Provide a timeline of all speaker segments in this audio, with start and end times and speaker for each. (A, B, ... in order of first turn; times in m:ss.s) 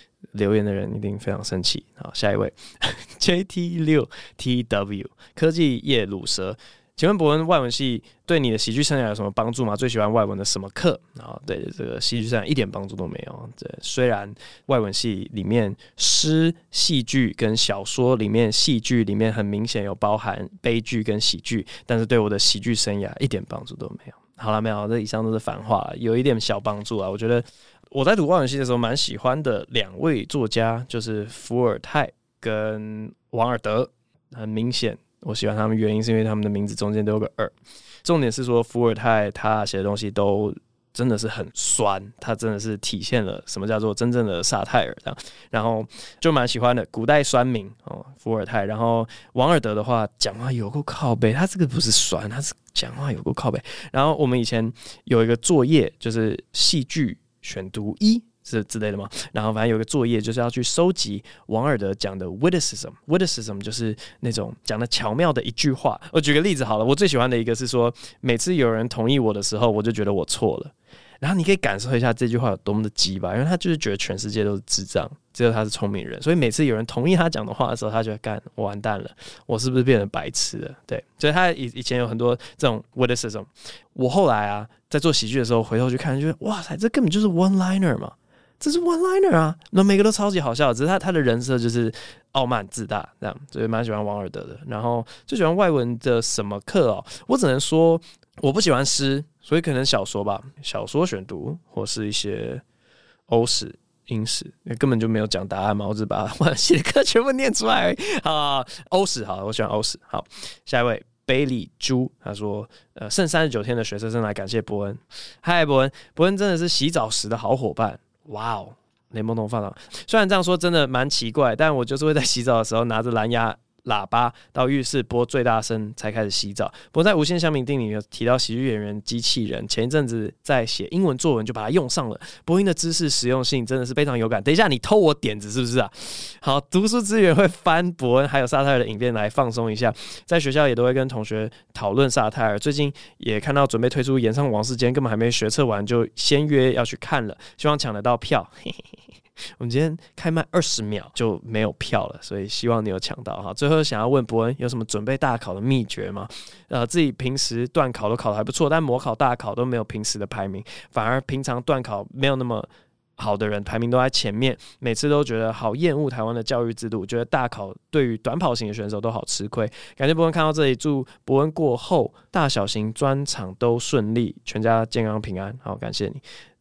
0:00.3-1:42.6 A
1:43.3-2:28.9 A
2:29.6-2:56.2 A